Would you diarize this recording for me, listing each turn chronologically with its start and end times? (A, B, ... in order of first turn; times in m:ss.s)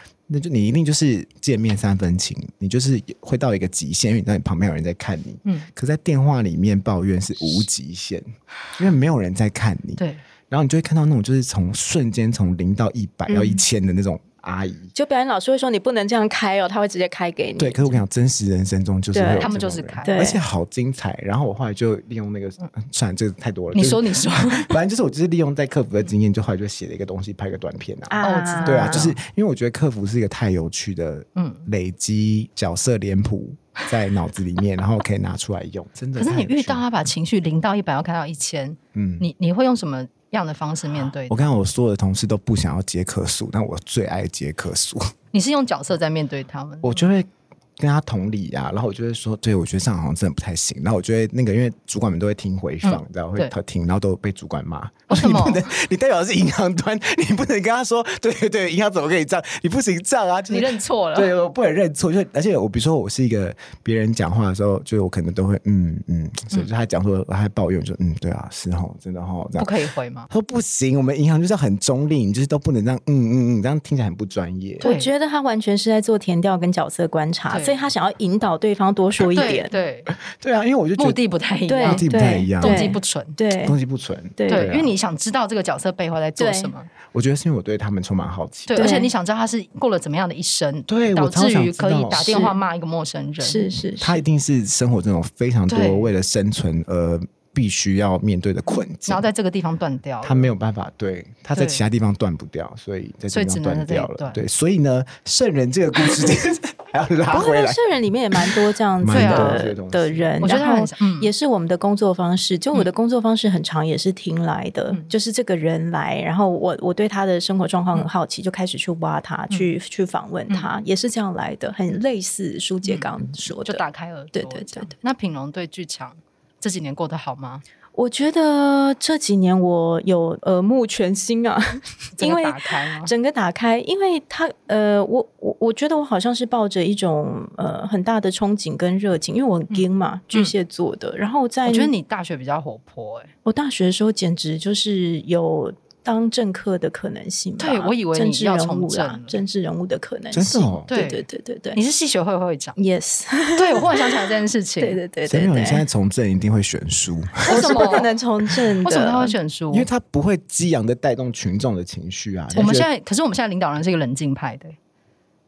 0:00.3-0:14.9 A
0:13.3-0:13.6 B
0:14.9-0:18.0 B
0:17.6-0:36.8 A
0:19.1-0:19.5 B
0:19.4-0:20.2 C
0:20.0-0:20.4 B
0:23.7-0:24.7 C
0:28.1-0:29.1 B
0:28.2-0:29.1 C
0:31.4-0:31.6 C
0:36.2-0:41.5 C
0:38.9-0:39.3 A
0:41.3-0:45.1 A
0:45.3-0:47.1 C
0:46.8-1:09.7 A
0:52.8-0:53.5 C
0:55.1-0:55.6 C
1:00.5-1:01.3 C
1:09.6-1:10.3 C
1:10.3-1:14.8 A
1:14.8-1:19.7 B
1:14.8-1:15.1 C
1:17.5-1:17.8 C
1:19.3-1:20.1 C
1:20.2-1:21.2 A
1:21.0-1:23.4 C
1:21.7-1:23.8 B
1:21.8-1:22.9 A
1:23.6-1:24.9 A
1:24.4-1:24.7 B
1:24.5-1:26.9 C
1:26.4-1:26.7 B
1:27.1-1:29.0 A
1:28.7-1:33.7 C
1:28.8-1:29.1 B
1:30.9-1:32.5 A
1:32.1-1:32.5 B
1:33.4-1:34.2 B
1:34.0-1:39.2 A
1:35.7-1:36.1 C
1:39.0-1:40.5 C
1:40.2-1:50.3 A
1:41.5-1:41.8 C
1:43.3-1:44.4 C
1:47.3-2:03.8 B
1:49.1-1:49.7 C
1:50.4-1:51.3 C
2:02.8-2:03.1 C
2:03.6-2:07.6 C
2:04.3-2:04.9 B
2:07.9-2:21.9 B
2:12.2-2:13.1 C
2:19.7-2:20.5 C
2:21.6-2:23.3 C
2:23.4-2:31.8 B
2:27.6-2:29.4 C
2:30.3-2:30.9 A
2:30.9-2:32.8 C
2:32.8-2:35.8 B
2:33.5-2:35.0 C
2:35.2-2:38.0 A
2:37.4-2:39.3 B
2:37.5-2:38.1 C
2:38.8-2:39.9 C
2:39.7-2:42.9 A
2:42.5-2:44.8 C